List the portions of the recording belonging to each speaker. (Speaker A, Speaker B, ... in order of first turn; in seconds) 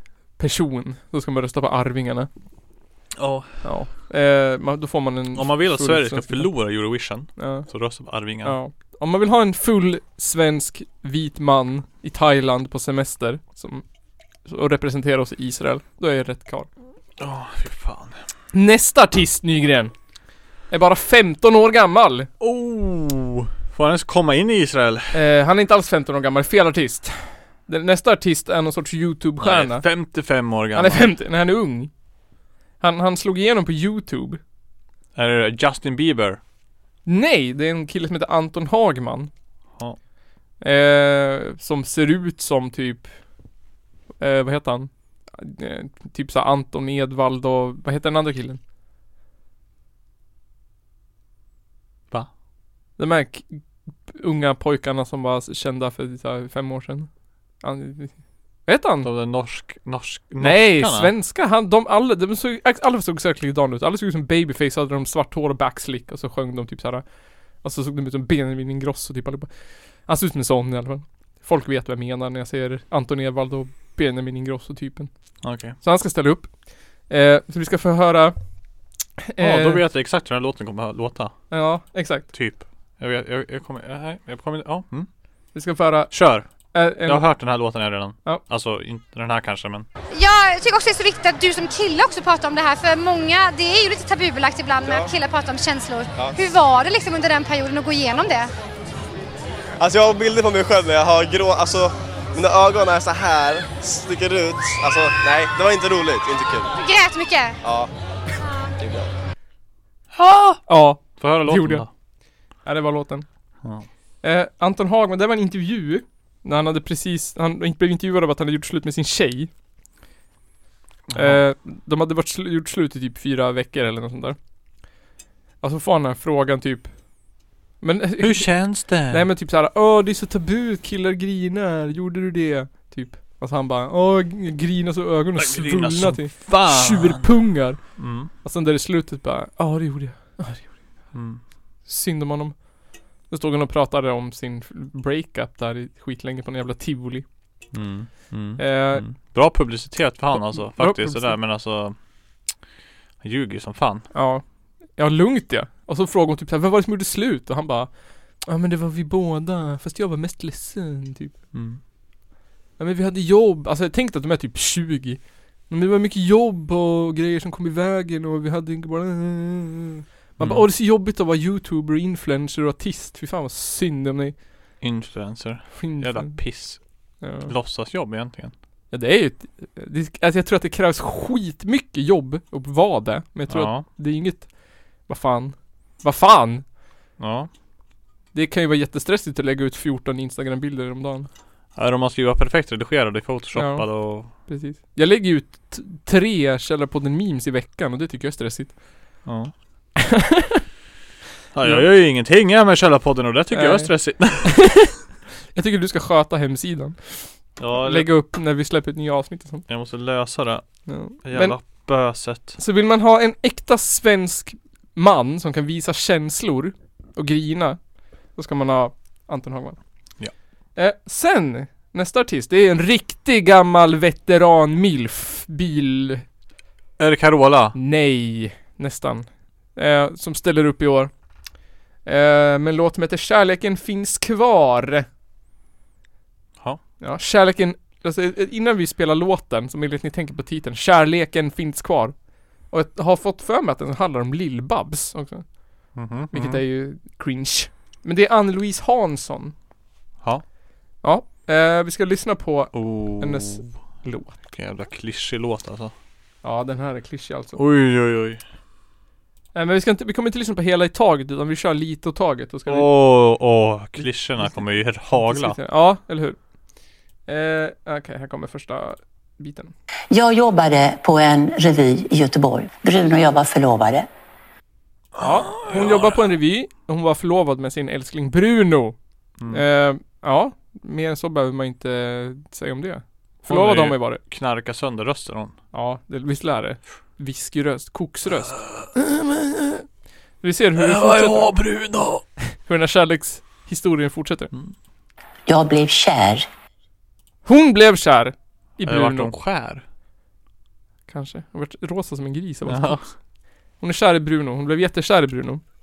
Speaker A: 0.4-2.3, 3.6-6.5, 7.4-7.7, 8.4-13.8, 14.4-16.7, 18.5-19.9, 20.7-22.3, 25.1-29.9, 30.7-31.9, 32.8-34.4, 37.1-39.3, 40.6-43.1, 44.2-48.6, 53.0-57.1, 57.6-59.1, 60.4-67.1, 67.6-69.5, 70.0-75.1, 75.8-78.4, 79.2-79.8, 81.5-82.3, 85.5-87.3, 110.7-111.9, 112.6-113.3, 114.2-119.5, 121.1-124.4, 125.6-126.9, 127.8-140.8, 141.8-142.7, 143.3-147.3, 148.6-149.1, 150.3-151.4, 154.1-161.4, 162.8-174.4, 175.8-176.4, 177.2-177.5, 178.9-184.5, 185.1-186.7, 188.3-191.3, 193.5-198.8, 200.0-200.6, 201.6-201.9, 203.5-205.0, 205.5-209.7, 210.9-211.9, 212.6-217.8, 218.3-219.8, 220.8-226.2, 227.8-231.1, 232.1-235.1, 237.0-249.5, 251.0-254.4, 256.4-257.6, 259.5-262.9, 264.0-266.4, 267.3-269.7, 275.2-279.0, 279.5-284.2, 285.7-289.8, 290.4-291.6, 292.6-294.5, 297.5-299.3, 301.1-303.1, 303.8-305.6
Speaker B: 3.2-3.6, 5.3-8.6, 17.2-18.2, 22.4-25.2, 29.4-31.1, 35.1-36.4, 59.0-61.1, 75.4-75.8, 79.4-81.4, 82.3-85.1, 86.1-89.9, 110.1-111.9, 121.1-121.4, 128.2-129.3, 135.4-137.3, 138.0-138.3, 141.1-141.4, 147.7-151.9, 153.2-154.1, 161.5-161.8, 170.4-170.6, 174.8-176.8, 177.4-178.5, 183.5-183.9, 187.2-187.5, 191.8-194.3, 199.2-199.5, 201.5-204.7, 207.6-208.1, 209.7-210.7, 211.2-212.6, 227.0-227.8, 245.9-246.6, 252.7-253.7, 254.5-255.9, 257.6-258.4, 262.7-265.6, 275.2-276.1, 279.4-279.6, 283.5-285.6, 288.3-288.9, 290.8-292.2, 298.9-299.9, 302.7-303.1
Speaker C: 90.1-98.5, 106.8-107.6
Speaker D: 94.8-95.1, 99.8-106.7, 107.6-107.9, 108.8-109.1
Speaker E: 270.1-274.1, 295.5-296.5